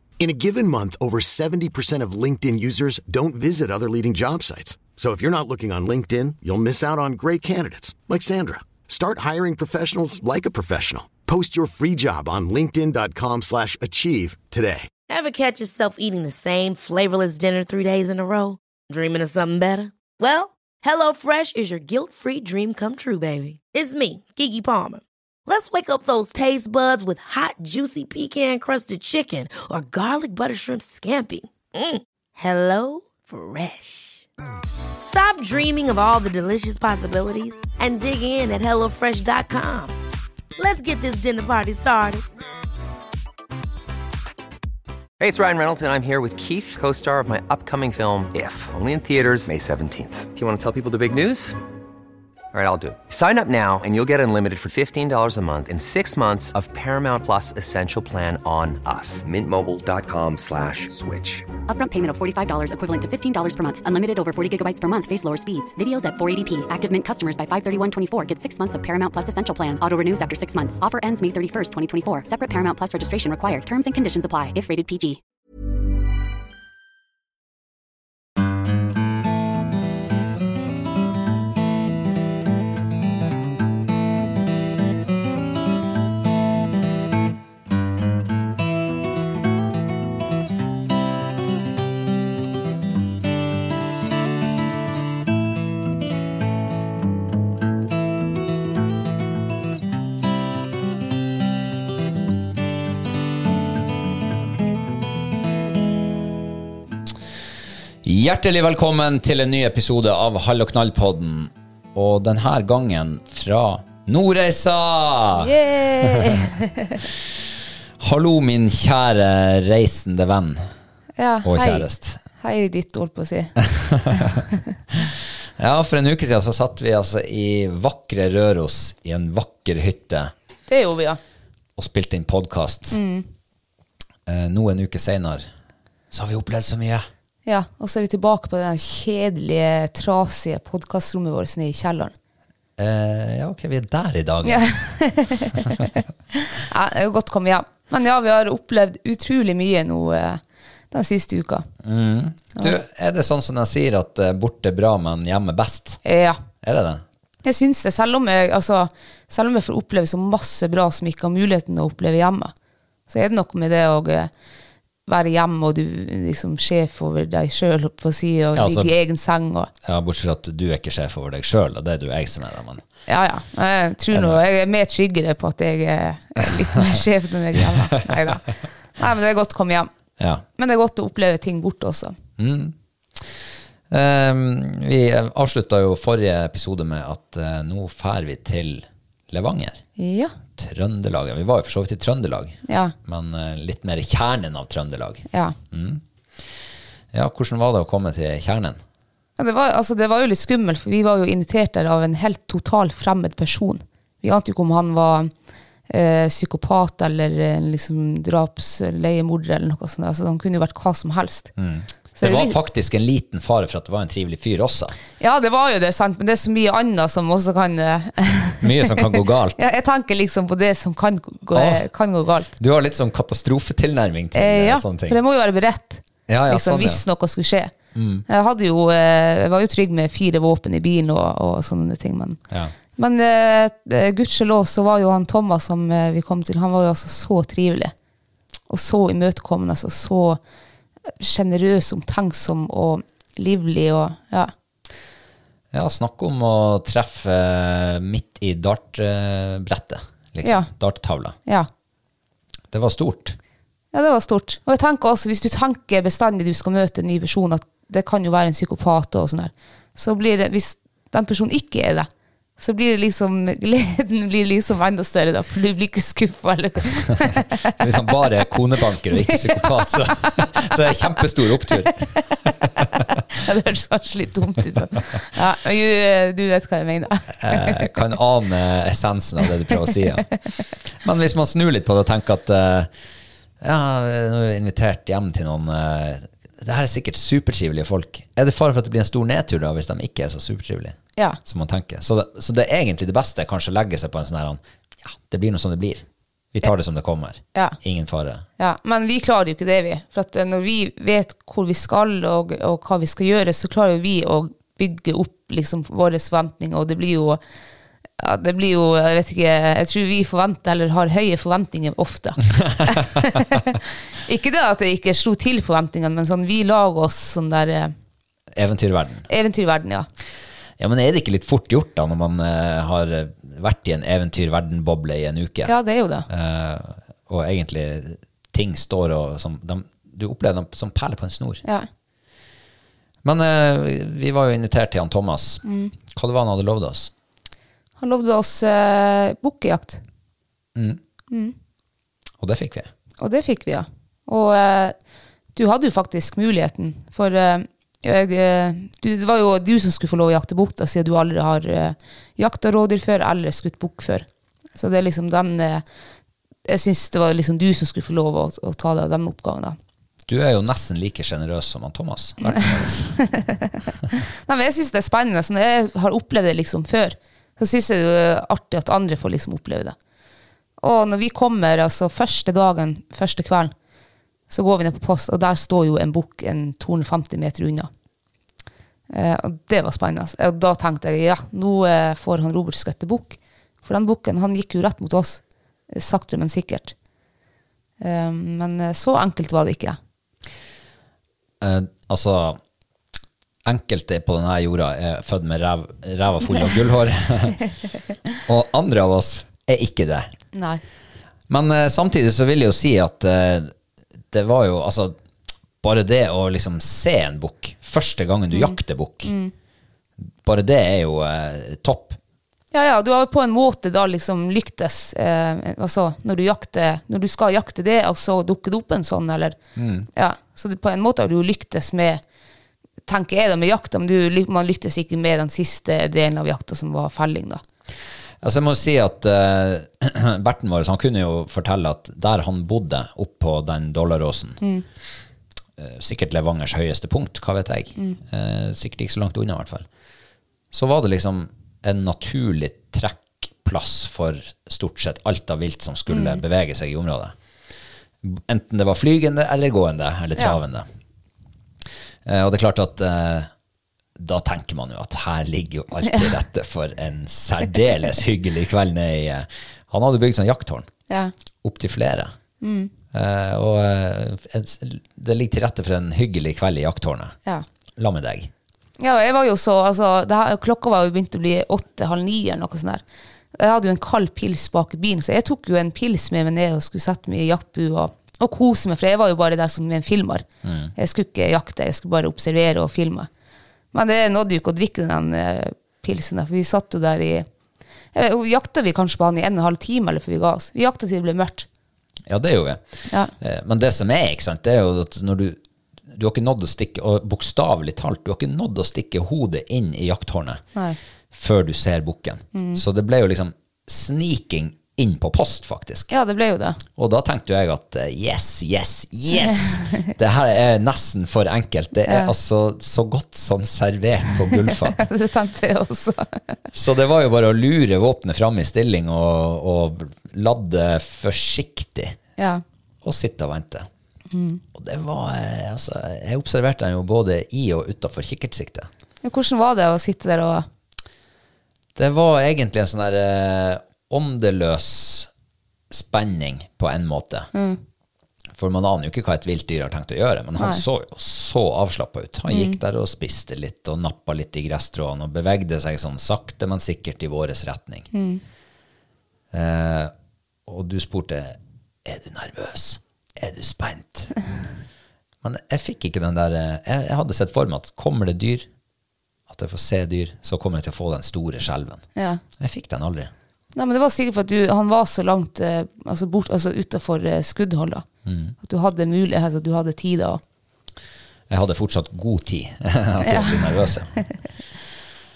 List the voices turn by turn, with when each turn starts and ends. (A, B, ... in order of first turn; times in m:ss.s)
0:00.2-0:14.9 A
0:15.1-0:34.3 B
0:35.0-0:40.0 B
0:40.6-0:42.2 B
0:45.2-0:51.6 C
0:52.5-1:01.5 C
1:01.7-1:15.2 D
1:48.0-1:56.4 E
1:55.3-1:57.0 F
1:58.0-2:00.7 E
2:01.2-2:01.9 F
2:01.4-2:02.2 E
2:02.4-2:03.5 F
2:03.6-2:04.4 E
2:04.1-2:04.5 F
2:05.6-2:10.3 E
2:10.7-2:11.2 F
2:11.8-2:13.0 E
2:12.9-2:13.2 F
2:14.3-2:15.5 E
2:16.1-2:17.1 E
2:17.5-2:22.1 F
2:22.8-2:24.8 E
2:24.4-2:31.7 F
2:31.8-2:36.0 E
2:36.0-2:36.4 F
2:36.6-2:37.0 E
2:37.4-2:42.5 F
2:43.1-2:44.3 F
2:45.1-2:49.7 F
2:48.6-2:48.9 E
2:49.8-2:52.8 E
2:53.1-2:59.9 F
2:54.1-2:54.4 E
2:57.6-2:58.0 E
3:00.2-3:00.4 E
3:00.6-3:02.2 F
3:02.4-3:03.3 E
3:03.9-3:09.8 E
3:10.0-3:10.4 F
3:10.6-3:16.0 E
3:12.7-3:12.9 F
3:15.3-3:15.6 F
3:17.1-3:18.8 E
3:19.4-3:25.3 F
3:25.9-3:31.5 F
3:31.6-3:34.9 E
3:32.2-3:32.6 F
3:35.2-3:42.5 F
3:38.6-3:39.7 E
3:41.5-3:41.8 E
3:42.6-3:45.2 E
3:44.4-3:47.7 F
3:46.3-3:47.0 E
3:47.9-3:48.2 E
3:48.3-3:52.4 F
3:53.0-3:57.9 F
3:58.7-4:00.4 F
4:01.2-4:04.5 F
4:05.7-4:11.4 E
4:10.4-4:10.7 F
4:12.7-4:13.4 E
4:13.9-4:22.1 F
4:22.6-4:27.8 F
4:27.7-4:32.5 E
4:29.1-4:30.9 F
4:31.7-4:37.9 F
4:37.4-4:40.3 E
4:41.0-4:42.9 E
4:43.6-4:58.4 E
4:58.6-5:07.4 F
5:08.2-5:17.9 F
5:12.6-5:13.0 E
5:18.6-5:19.3 E
5:19.3-5:20.1 F
5:20.8-5:25.8 E
5:25.7-5:26.3 F
5:26.3-5:31.6 E
5:33.2-5:37.1 E
5:35.6-5:35.9 F
5:38.0-5:40.0 F
5:40.8-5:41.0 E
5:42.4-5:42.9 E
5:43.2-5:45.0 F
5:45.6-5:55.8 F
5:56.7-5:59.8 F
6:00.3-6:03.2 E
6:02.4-6:10.0 F
6:10.8-6:13.7 F
6:14.5-6:17.9 F
6:19.1-6:27.0 F
6:28.0-6:30.0 F
6:31.6-6:32.6 E
6:33.6-6:37.6 E
6:38.4-6:40.3 E
6:40.5-6:40.8 F
6:41.5-6:43.7 E
6:44.3-6:45.2 E
6:45.8-6:49.3 E
6:48.5-6:49.5 F
6:50.4-6:52.2 E
6:52.7-6:59.6 F
6:59.8-7:00.1 E
7:00.2-7:02.2 F
7:03.1-7:07.6 F
7:08.4-7:14.6 E
7:15.8-7:19.9 E
7:20.7-7:27.4 E
7:26.1-7:26.4 F
7:28.2-7:30.9 E
7:32.2-7:33.5 E
7:34.2-7:40.9 E
7:36.0-7:36.3 F
7:41.6-7:42.3 E
7:42.6-7:42.9 F
7:43.1-7:47.4 E
7:48.0-7:48.5 E
7:49.0-7:53.0 F
7:53.6-8:00.4 F
8:00.6-8:00.9 E
8:01.0-8:03.3 F
8:03.9-8:07.5 F
8:08.1-8:11.7 F
8:12.3-8:20.6 E
8:21.3-8:26.1 E
8:22.5-8:22.8 F
8:26.1-8:26.8 F
8:27.0-8:35.0 E
8:32.1-8:32.3 F
8:34.6-8:36.4 F
8:36.7-8:42.2 E
8:42.4-8:42.6 F
8:43.0-8:43.9 E
8:44.3-8:44.6 F
8:44.8-8:48.9 E
8:49.2-8:50.6 F
8:52.0-8:55.3 E
8:55.9-8:57.5 E
8:57.5-8:57.8 F
8:58.6-9:08.1 E
9:00.6-9:00.8 F
9:02.5-9:02.8 F
9:08.1-9:08.4 F
9:09.5-9:10.1 E
9:10.7-9:14.3 E
9:15.4-9:18.7 E
9:19.5-9:22.0 E
9:22.2-9:22.4 F
9:22.6-9:23.3 E
9:23.8-9:28.0 F
9:28.2-9:28.6 E
9:28.6-9:30.4 F
9:31.5-9:34.1 E
9:33.2-9:34.2 F